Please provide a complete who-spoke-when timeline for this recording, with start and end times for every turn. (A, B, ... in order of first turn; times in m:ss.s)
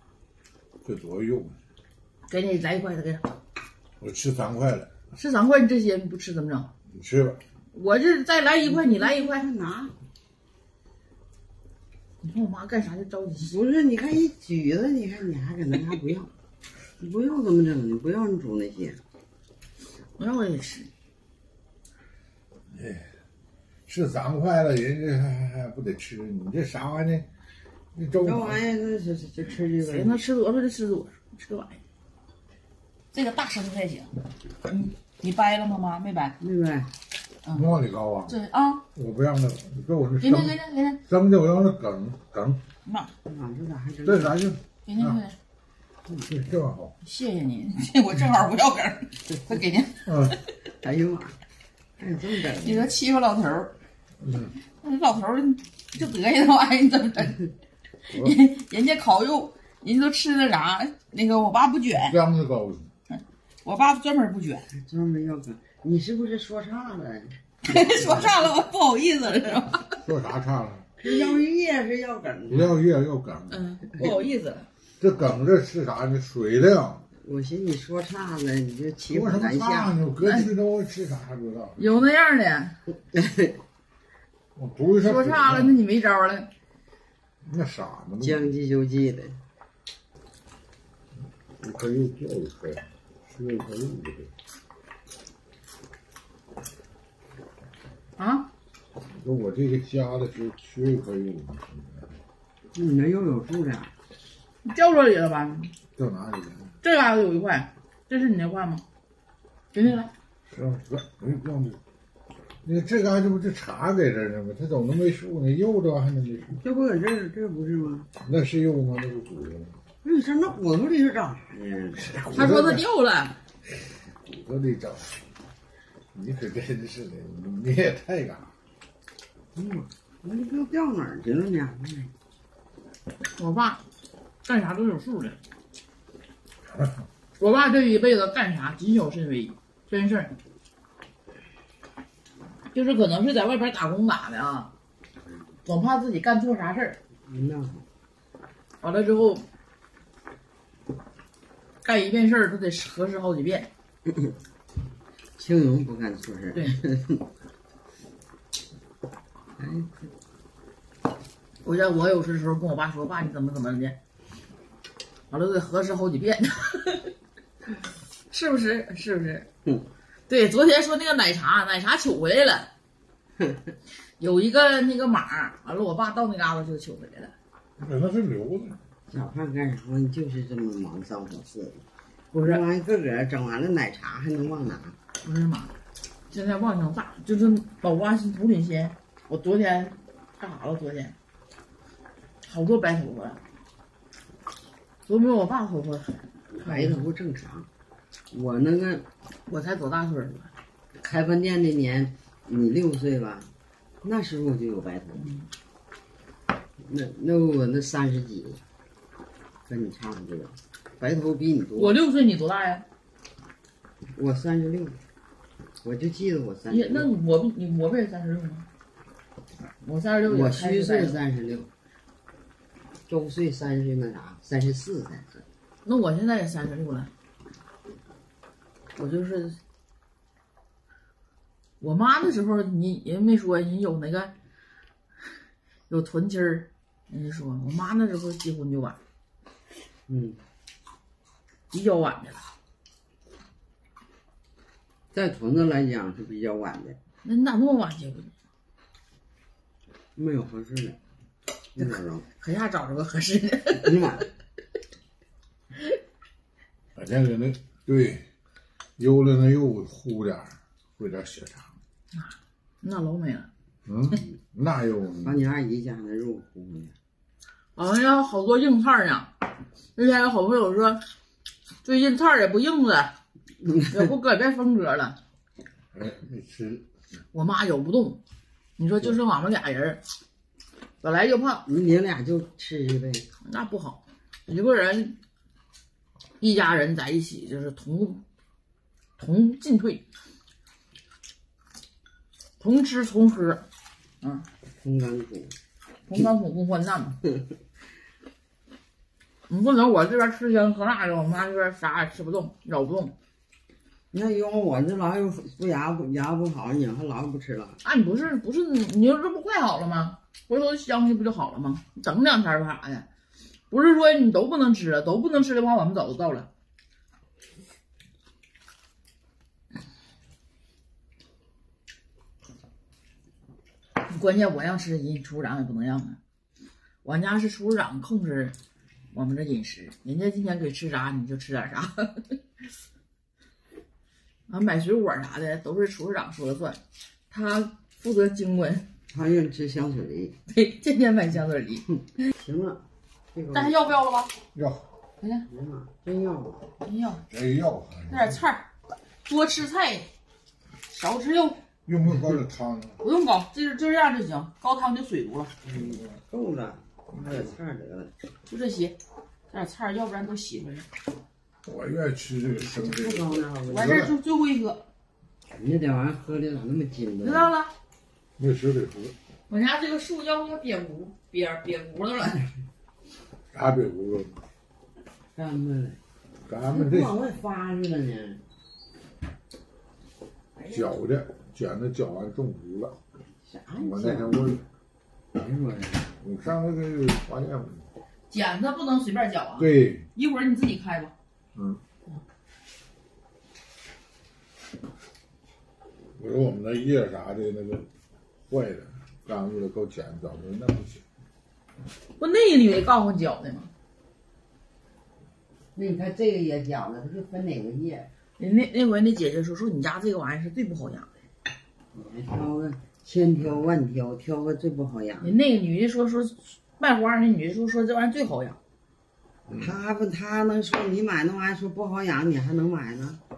0:00.8-0:01.6 A
0:02.3-0:03.4 B
0:04.0-0:04.9 A
0:05.1-0:06.7 B
0:06.9-0:07.4 A
0:07.7-0:09.5 B
0:08.6-0:10.0 C
0:12.2-0:13.6 B
0:13.5-0:16.3 C
0:17.0-0:19.0 C
0:20.2-0:20.9 B
0:22.7-0:23.1 A
0:23.9-0:27.3 A
0:27.9-0:28.6 A
0:28.2-0:30.2 C
0:29.8-0:31.8 B
0:33.1-0:36.4 B
0:36.4-0:36.9 C
0:37.5-0:38.3 A
0:38.3-0:38.8 B
0:39.0-0:42.6 A
0:40.2-0:41.0 B
0:42.8-0:43.1 B
0:43.2-0:44.4 C
0:44.1-0:45.1 A
0:44.8-0:45.4 B
0:46.2-0:46.9 A
0:47.0-0:50.4 B
0:50.1-0:50.4 A
0:50.7-0:51.4 C
0:52.0-0:52.9 C
0:52.5-0:53.7 B
0:54.2-0:54.5 A
0:54.8-0:57.5 B
0:58.1-1:02.2 B
1:02.0-1:02.9 A
1:03.1-1:04.7 B
1:04.7-1:08.5 C
1:07.6-1:10.0 B
1:10.0-1:10.9 A
1:11.0-1:12.8 C
1:12.5-1:14.1 A
1:13.5-1:14.7 B
1:15.0-1:17.1 A
1:17.2-1:20.0 C
1:19.1-1:21.8 A
1:20.2-1:20.5 B
1:21.8-1:22.8 B
1:23.1-1:23.6 C
1:24.6-1:25.8 A
1:25.0-1:26.5 B
1:27.4-1:28.5 A
1:28.2-1:29.4 C
1:31.6-1:34.3 A
1:38.2-1:38.5 B
1:39.1-1:42.1 A
1:42.7-1:43.9 C
1:44.6-1:45.7 B
1:46.0-1:46.8 A
1:46.8-1:48.8 B
1:49.7-1:50.1 B
1:50.5-1:51.8 A
1:52.6-1:56.6 A
1:56.5-1:58.1 C
1:58.2-1:59.8 A
2:00.0-2:02.1 C
2:02.0-2:02.8 A
2:02.2-2:03.4 B
2:04.3-2:05.2 A
2:06.1-2:08.5 A
2:09.6-2:12.1 C
2:13.4-2:13.8 B
2:14.4-2:15.4 B
2:17.4-2:20.4 B
2:22.7-2:24.7 B
2:25.6-2:27.0 B
2:27.3-2:27.8 C
2:28.8-2:29.5 B
2:31.8-2:33.7 B
2:35.4-2:37.3 C
2:39.6-2:40.1 C
2:41.6-2:44.0 B
2:45.3-2:47.1 B
2:48.3-2:49.5 B
2:50.3-2:52.7 B
2:54.2-2:57.3 B
2:57.8-2:58.8 A
2:59.1-3:05.0 C
3:05.2-3:05.7 B
3:06.3-3:11.2 B
3:12.4-3:13.4 B
3:15.0-3:17.0 B
3:16.6-3:17.7 C
3:18.3-3:19.1 C
3:19.5-3:20.5 B
3:21.0-3:23.5 C
3:24.0-3:25.3 C
3:25.2-3:25.5 B
3:26.8-3:28.6 C
3:29.7-3:32.0 C
3:31.8-3:32.8 B
3:34.2-3:35.0 C
3:35.8-3:37.1 C
3:36.7-3:38.7 B
3:39.8-3:41.2 B
3:40.3-3:41.7 C
3:43.1-3:45.4 C
3:45.8-3:47.1 B
3:49.0-3:49.6 B
3:51.8-3:54.3 B
3:55.9-3:59.0 B
4:00.1-4:00.4 C
4:01.7-4:02.5 B
4:05.1-4:07.0 C
4:07.2-4:08.3 B
4:10.2-4:11.0 C
4:11.8-4:12.3 C
4:11.8-4:14.2 B
4:13.8-4:14.3 C
4:17.0-4:18.3 A
4:19.0-4:21.8 A
4:22.1-4:23.5 B
4:23.9-4:25.4 A
4:25.2-4:26.9 C
4:27.8-4:29.3 B
4:30.0-4:31.0 B
4:31.8-4:33.1 B
4:33.6-4:34.0 C
4:33.9-4:35.2 B
4:35.9-4:36.9 A
4:37.3-4:38.2 B
4:38.8-4:40.0 B
4:41.0-4:41.6 B
4:41.7-4:43.3 C
4:43.4-4:45.2 B
4:46.4-4:48.2 B
4:49.2-4:50.0 B
4:52.6-4:53.6 B
4:54.2-4:54.5 B
4:54.8-4:55.6 C
4:56.1-4:57.2 B
4:59.5-5:03.2 B
5:04.1-5:07.8 C
5:07.8-5:13.1 B
5:13.7-5:16.5 B
5:24.0-5:26.2 B
5:27.0-5:28.6 B
5:29.1-5:32.4 B
5:34.5-5:38.8 B
5:39.1-5:40.4 C
5:40.5-5:41.9 B
5:42.4-5:43.8 C
5:43.5-5:44.3 B
5:44.6-5:44.9 A
5:45.5-5:46.7 C
5:46.8-5:47.2 B
5:47.3-5:48.3 A
5:48.1-5:48.7 B
5:49.2-5:50.1 B
5:50.9-5:51.6 B
5:51.9-5:53.0 A
5:53.0-5:55.5 B
5:55.6-5:58.1 C
5:58.5-5:59.0 B
5:59.5-6:00.9 B
6:01.6-6:04.1 A
6:02.6-6:04.1 C
6:03.7-6:04.8 B
6:05.6-6:07.5 C
6:07.2-6:07.7 B
6:08.4-6:09.2 A
6:09.5-6:12.5 B
6:13.5-6:14.4 A
6:15.3-6:16.0 C
6:16.5-6:17.1 A
6:16.7-6:18.4 C
6:20.6-6:20.9 B
6:20.7-6:23.0 A
6:23.5-6:24.4 C
6:23.8-6:24.6 A
6:25.4-6:26.1 C
6:26.2-6:27.9 A
6:28.3-6:31.1 B
6:29.6-6:30.0 A
6:36.2-6:37.9 A
6:38.5-6:41.0 A
6:42.2-6:43.7 B
6:45.8-6:48.1 C
6:48.4-6:51.1 B
6:51.9-6:55.4 C
6:55.2-6:58.6 B
6:59.6-7:03.2 C